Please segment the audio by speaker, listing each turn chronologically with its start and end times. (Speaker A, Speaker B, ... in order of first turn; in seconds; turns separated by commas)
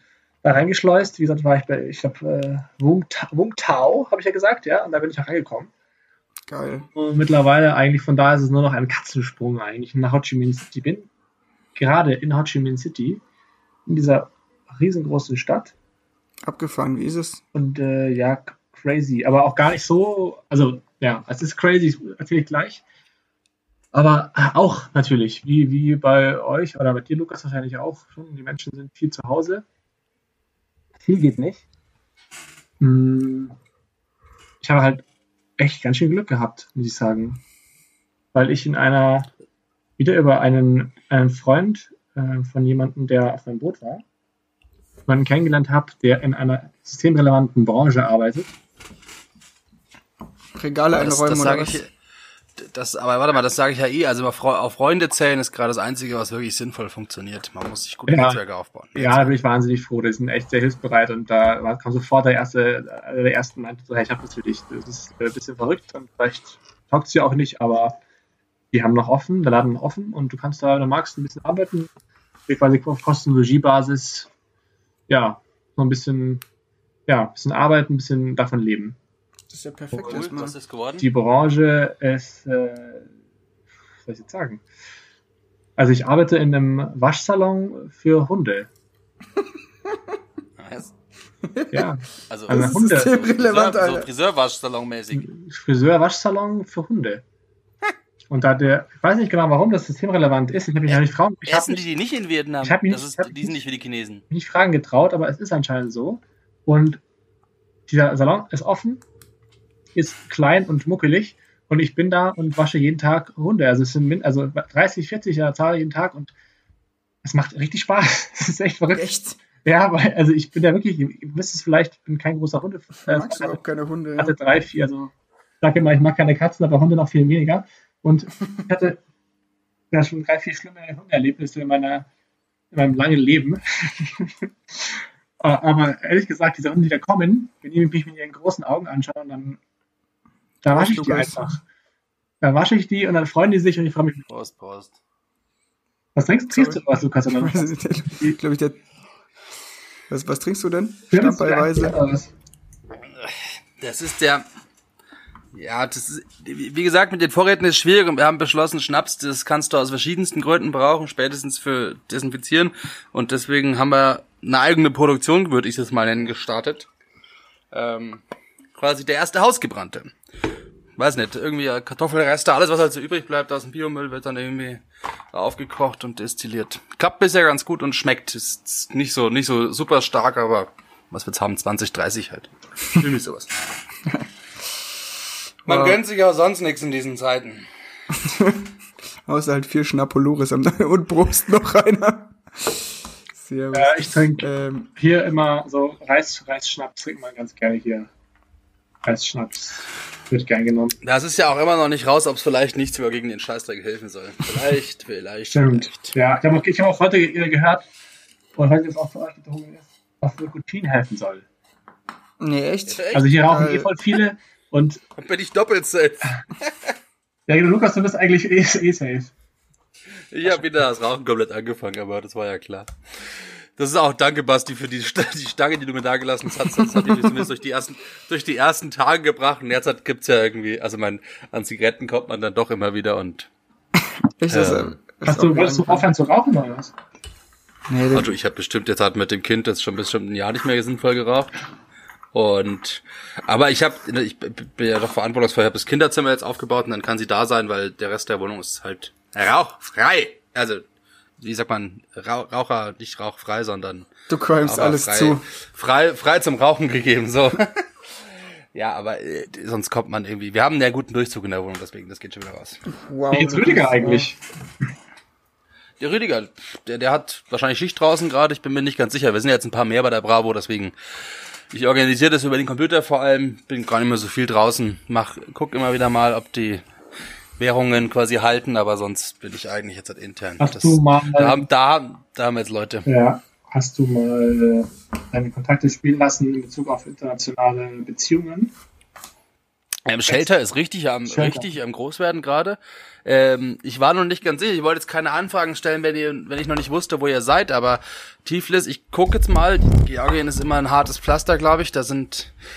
Speaker A: 0.4-5.7, Speaker B: 6.5-6.9, Speaker A: 6.9-11.1, Speaker A: 11.7-13.2, Speaker A: 13.8-15.7, Speaker B: 16.4-17.4, Speaker A: 17.5-22.8, Speaker A: 23.9-29.6, Speaker A: 31.0-31.6, Speaker A: 32.8-33.5, Speaker A: 34.6-35.0, Speaker A: 35.6-37.4, Speaker A: 38.3-39.3, Speaker A: 40.0-44.0, Speaker A: 45.1-48.5, Speaker B: 50.5-51.8, Speaker C: 50.9-51.9, Speaker C: 52.6-59.4, Speaker A: 58.1-58.4, Speaker A: 58.9-67.9, Speaker A: 68.7-71.9, Speaker A: 72.5-74.3, Speaker A: 75.1-76.4, Speaker A: 77.1-79.0, Speaker B: 79.5-80.5, Speaker C: 80.0-81.0, Speaker A: 81.0-83.1, Speaker A: 84.0-84.6, Speaker A: 85.8-88.7, Speaker C: 90.6-90.9, Speaker B: 91.4-91.9, Speaker A: 91.7-93.2, Speaker C: 92.3-95.3, Speaker B: 92.5-94.1, Speaker A: 95.1-97.2, Speaker A: 98.3-101.8, Speaker C: 101.5-104.2, Speaker A: 102.6-103.6, Speaker A: 104.3-107.0, Speaker A: 107.9-109.0, Speaker A: 109.9-116.3, Speaker A: 117.2-119.1, Speaker B: 118.9-119.4, Speaker A: 119.6-123.6, Speaker B: 123.0-124.4, Speaker A: 124.2-129.0, Speaker A: 129.9-132.1, Speaker A: 132.7-139.6, Speaker A: 140.6-141.6, Speaker B: 140.7-141.5, Speaker A: 142.4-144.3, Speaker C: 144.3-144.9, Speaker A: 146.1-148.3, Speaker B: 146.5-146.8, Speaker B: 147.3-148.8, Speaker B: 150.1-152.0, Speaker A: 151.1-152.3, Speaker C: 153.2-154.4, Speaker C: 155.5-166.9, Speaker C: 167.7-168.2, Speaker C: 168.8-170.1, Speaker C: 171.0-183.5, Speaker B: 185.7-186.0, Speaker C: 185.7-187.7, Speaker B: 188.1-188.7, Speaker B: 189.2-192.8, Speaker B: 193.3-194.9, Speaker A: 193.7-198.1, Speaker A: 199.0-200.9, Speaker C: 201.0-206.1, Speaker A: 205.5-207.9, Speaker A: 208.6-211.4, Speaker B: 212.4-213.9, Speaker C: 212.9-213.3, Speaker A: 213.1-215.0, Speaker C: 215.2-216.9, Speaker A: 217.5-219.3, Speaker C: 220.3-233.5, Speaker B: 226.9-227.4, Speaker B: 234.4-236.1, Speaker C: 234.5-234.9, Speaker A: 235.2-236.9, Speaker B: 237.9-238.3, Speaker C: 238.1-241.5, Speaker C: 242.3-250.8, Speaker C: 251.4-254.1, Speaker B: 254.3-255.4, Speaker C: 254.6-257.8, Speaker C: 258.7-262.8, Speaker B: 262.9-264.3, Speaker A: 263.3-264.4, Speaker C: 266.0-270.9, Speaker C: 271.7-276.8, Speaker C: 277.6-283.1, Speaker A: 280.6-281.6, Speaker A: 283.1-288.7, Speaker C: 290.1-302.5, Speaker A: 291.2-291.7